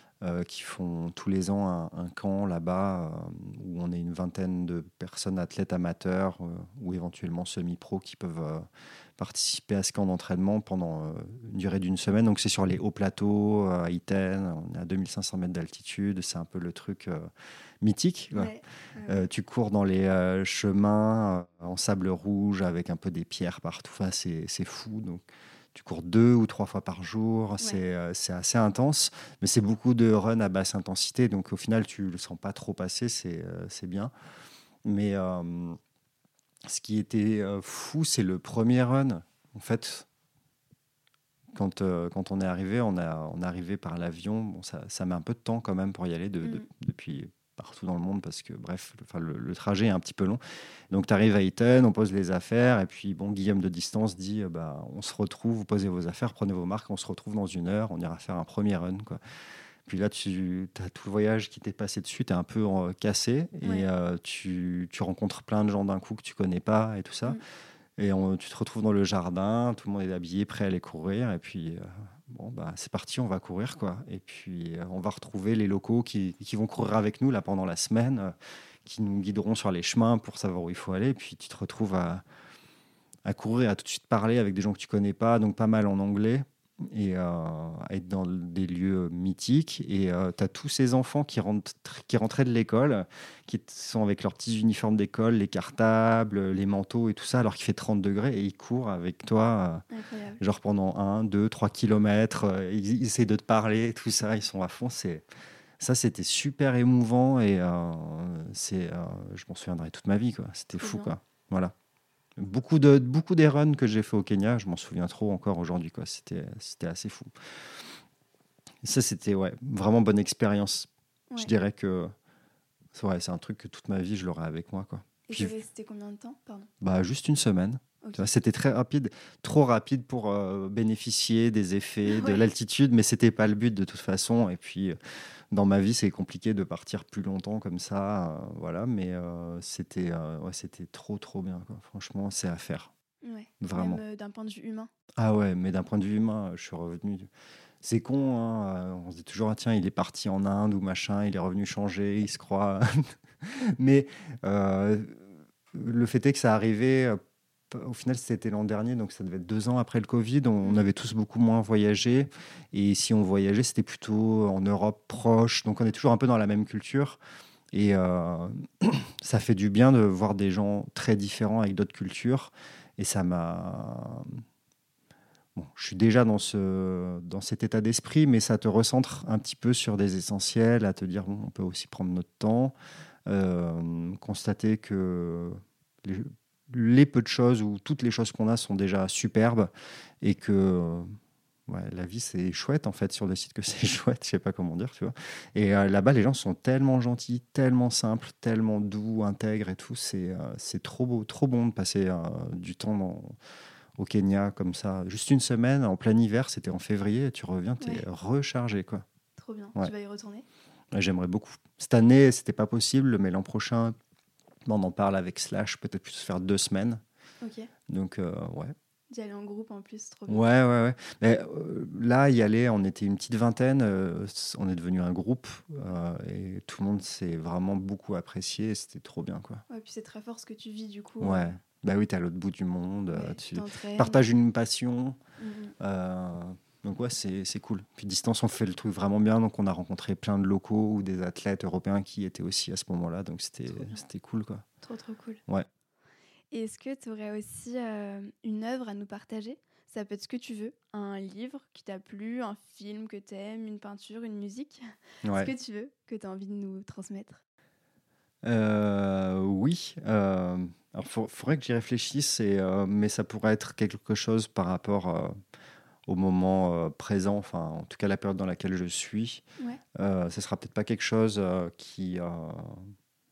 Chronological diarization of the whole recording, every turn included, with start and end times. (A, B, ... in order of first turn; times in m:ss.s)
0:00.2-0:08.7 A
0:09.2-0:17.3 A
0:17.8-0:18.5 A
0:18.4-0:19.3 B
0:19.1-0:34.1 A
0:34.8-0:35.8 A
0:36.7-0:40.1 A
0:41.5-0:50.4 A
0:50.9-0:59.2 A
0:59.9-1:07.4 A
1:08.0-1:18.3 A
1:18.8-1:22.2 A
1:23.2-1:39.8 A
1:39.9-1:40.4 B
1:40.4-1:45.3 A
1:45.8-1:51.7 A
1:50.8-1:51.1 B
1:52.4-1:57.3 A
1:58.8-2:02.1 A
2:03.0-2:05.5 A
2:05.3-2:06.7 B
2:06.8-2:15.0 A
2:12.0-2:12.4 B
2:15.5-2:22.9 A
2:23.2-2:24.9 B
2:23.6-2:24.0 A
2:25.2-2:27.3 A
2:27.8-2:37.2 A
2:37.7-2:47.2 A
2:47.7-2:54.4 A
2:55.6-3:02.8 A
3:03.3-3:11.1 A
3:11.7-3:23.4 A
3:24.0-3:29.0 A
3:27.8-3:28.0 B
3:29.4-3:30.5 B
3:30.9-3:34.0 A
3:34.7-3:37.0 A
3:37.4-3:37.7 B
3:37.9-3:38.8 A
3:39.1-3:40.5 B
3:40.3-3:49.6 A
3:49.7-3:51.6 B
3:51.2-3:55.2 A
3:53.1-3:54.2 B
3:55.4-3:55.8 B
3:55.8-4:04.6 A
4:03.7-4:04.0 B
4:04.8-4:05.4 B
4:06.5-4:14.8 B
4:15.2-4:15.5 A
4:15.4-4:17.4 B
4:18.4-4:25.3 A
4:26.1-4:29.4 A
4:30.0-4:32.9 A